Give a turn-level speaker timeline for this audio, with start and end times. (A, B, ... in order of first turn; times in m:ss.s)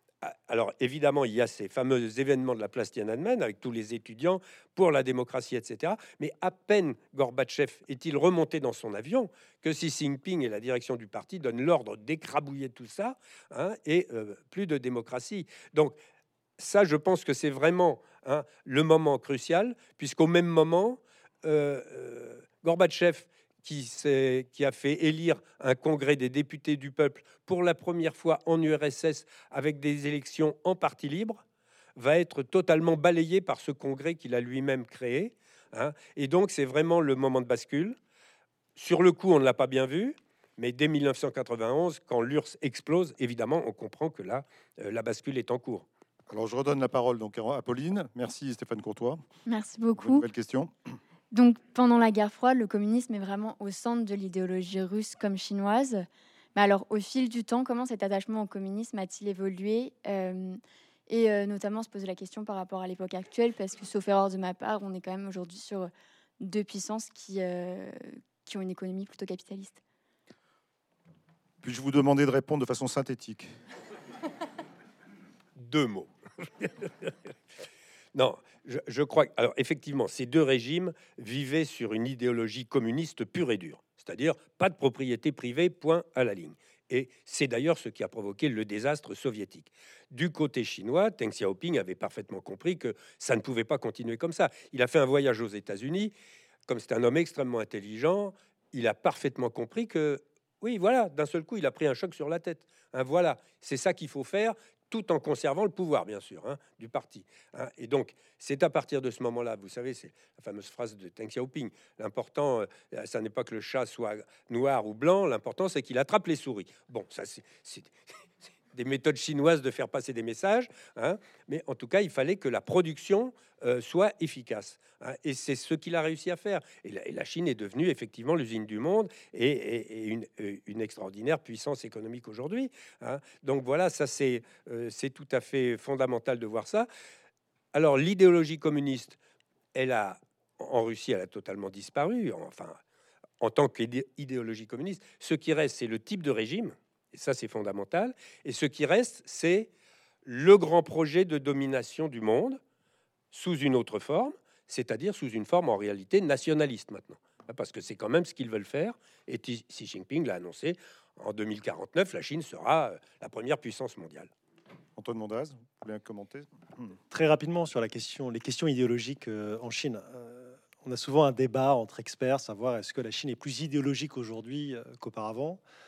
0:00.2-0:16.0 A
0:16.6-0:31.4 A
0:32.0-0:38.0 A
0:38.8-0:45.8 A
0:46.3-0:49.2 B
0:49.5-0:50.2 C
0:50.0-0:50.7 B
0:51.3-1:09.8 C
1:11.6-1:13.5 B
1:15.6-1:17.1 A
1:18.1-1:36.1 A
1:36.6-1:57.9 A
1:58.7-2:16.9 A
2:17.7-2:19.2 A
2:19.7-2:22.8 A
2:23.4-2:29.7 A
2:30.2-2:32.6 A
2:33.3-2:44.3 A
2:45.0-2:46.9 B
2:47.1-2:55.6 D